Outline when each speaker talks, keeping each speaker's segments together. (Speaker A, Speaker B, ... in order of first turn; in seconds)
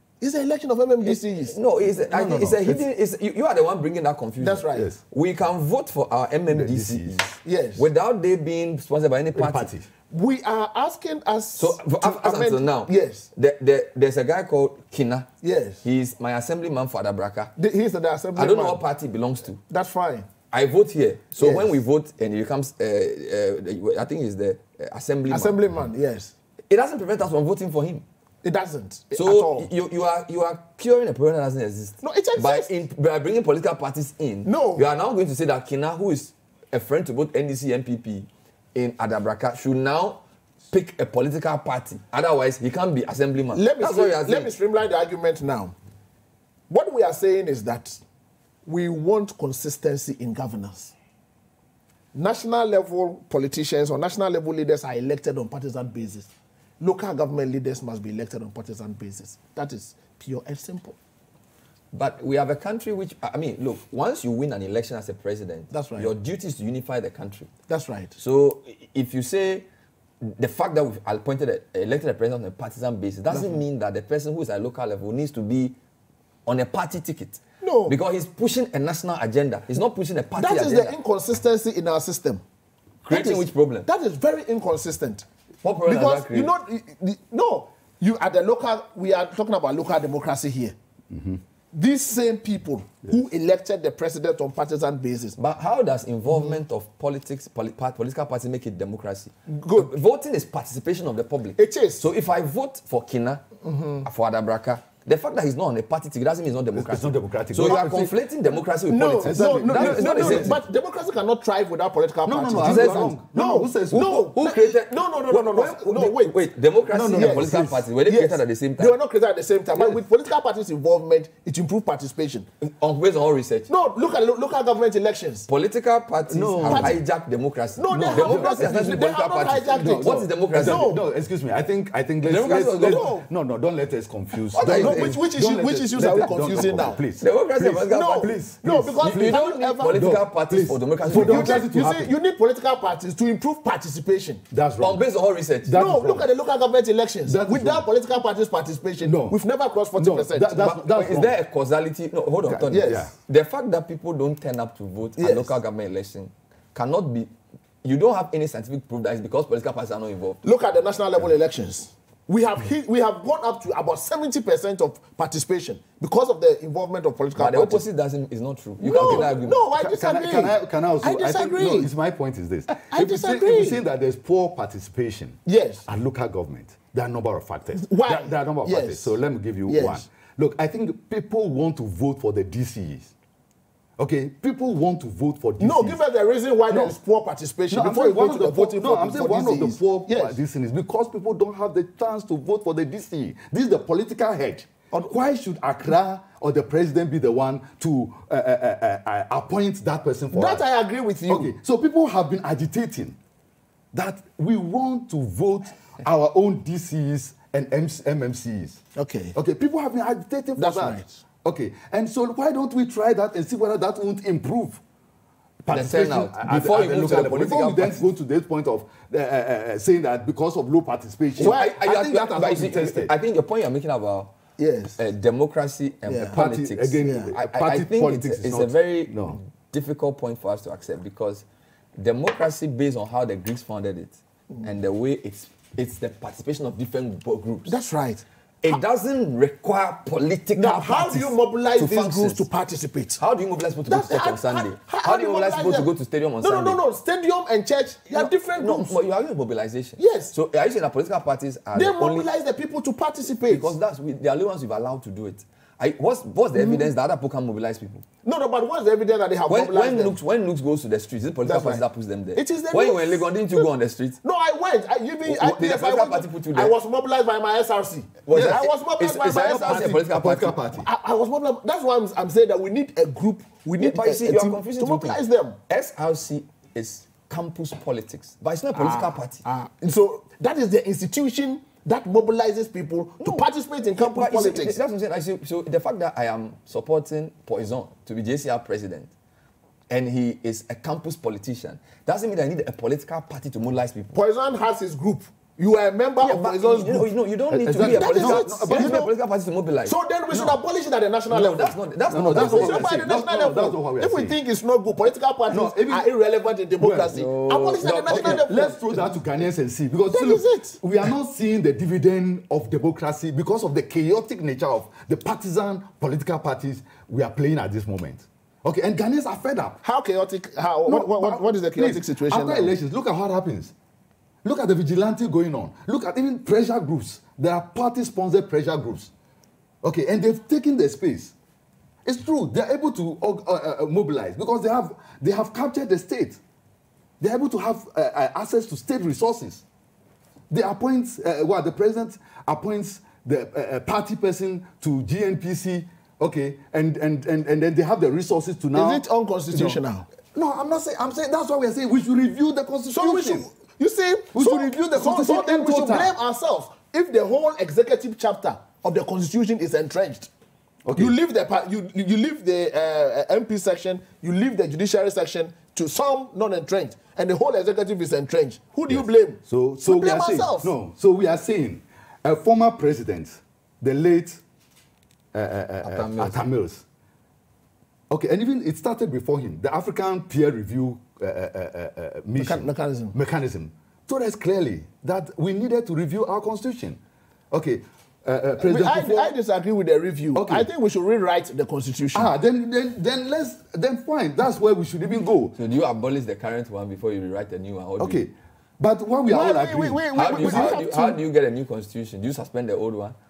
Speaker A: 0.2-1.6, 4.4-4.9, 7.4-7.8, 10.1-13.3, 15.4-15.8, 17.6-18.8, 19.7-20.3, 21.4-21.8, 25.3-26.3, 28.4-29.7, 32.0-32.7, 34.4-34.9, 43.5-45.7, 46.7-48.0, 48.6-50.9, 52.1-61.0, 65.7-66.1, 67.7-68.1, 73.3-73.6, 77.6-78.0, 80.4-82.4, 83.1-85.2, 85.8-90.7, 91.7-95.4, 96.3-96.6, 99.5-99.9, 101.6-102.1, 103.6-104.1, 108.9-116.4, 117.1-122.5, 123.7-125.5, 126.6-127.0, 127.8-131.0, 132.8-133.3, 134.6-137.0, 137.8-140.1, 141.1-144.4, 145.7-150.6, 152.7-153.1, 155.2-155.6, 160.4-167.8, 168.8-171.9, 172.7-173.8, 175.4-175.8, 177.7-179.2, 179.7-180.0, 185.6-190.4, 200.3-201.5, 208.9-209.3, 210.6-211.2, 221.4-221.8, 224.6-225.0, 226.1-226.4, 227.0-227.3, 237.7-238.8, 240.5-243.2, 243.9-245.9, 246.4-249.0, 250.0-250.3, 251.7-253.7, 256.5-256.9, 258.2-260.2, 261.4-261.8, 262.3-263.7, 264.2-270.0, 270.8-275.6, 278.7-284.8, 294.1-297.1, 297.7-299.1, 299.9-309.1, 310.1-310.8, 319.8-322.7, 348.7-350.1, 352.9-360.3, 360.9-370.7, 382.4-383.1, 388.6-392.3, 399.3-401.2
Speaker B: 1.0-9.7, 11.6-15.3, 15.8-17.5, 18.3-19.6, 20.5-25.6, 26.7-28.0, 29.1-44.5, 61.9-67.5, 68.2-69.7, 70.2-75.8, 76.5-80.9, 83.0-83.9, 85.6-86.5, 95.3-103.5, 104.0-110.6, 112.6-113.2, 113.9-118.9, 122.6-123.7, 125.5-130.9, 132.2-133.1, 134.5-135.2, 136.0-138.3, 139.0-142.0, 144.8-145.8, 150.6-157.3, 157.8-160.5, 167.3-169.6, 215.7-218.0, 221.4-224.3, 225.0-231.4, 232.0-237.7, 238.6-242.4, 243.2-246.8, 248.1-252.3, 253.5-258.0, 259.5-264.2, 265.2-266.7, 268.2-270.6, 273.8-279.4, 283.2-283.5, 284.0-289.1, 289.9-294.2, 296.2-299.9, 301.3-303.1, 307.1-308.4, 375.8-376.4, 395.5-398.2, 400.1-403.2
Speaker C: 2.1-2.8, 6.5-7.3, 9.3-9.9, 91.1-91.4, 106.7-108.1, 109.2-110.5, 112.2-114.2, 116.9-117.8, 126.3-127.0, 127.9-129.1, 129.7-142.1, 144.5-145.0, 145.7-146.3, 147.2-147.8, 149.0-149.4, 149.9-151.3, 152.5-153.1, 168.8-183.1, 184.0-186.0, 186.7-186.9, 187.7-200.6, 201.3-203.2, 203.9-208.8, 209.3-214.8, 215.6-223.1, 226.3-229.4, 268.3-268.6, 269.2-270.9, 297.5-299.1, 300.3-300.6, 302.1-304.4, 305.5-306.1, 306.8-307.1, 308.1-319.8, 320.9-323.7, 324.4-329.1, 329.8-331.3, 332.0-336.4, 337.2-339.6, 340.5-349.8, 350.3-353.5, 354.3-356.1, 360.8-361.1, 368.9-374.4, 375.3-376.8, 378.1-387.0, 387.5-389.3, 390.3-390.7, 392.1-395.6, 398.0-400.8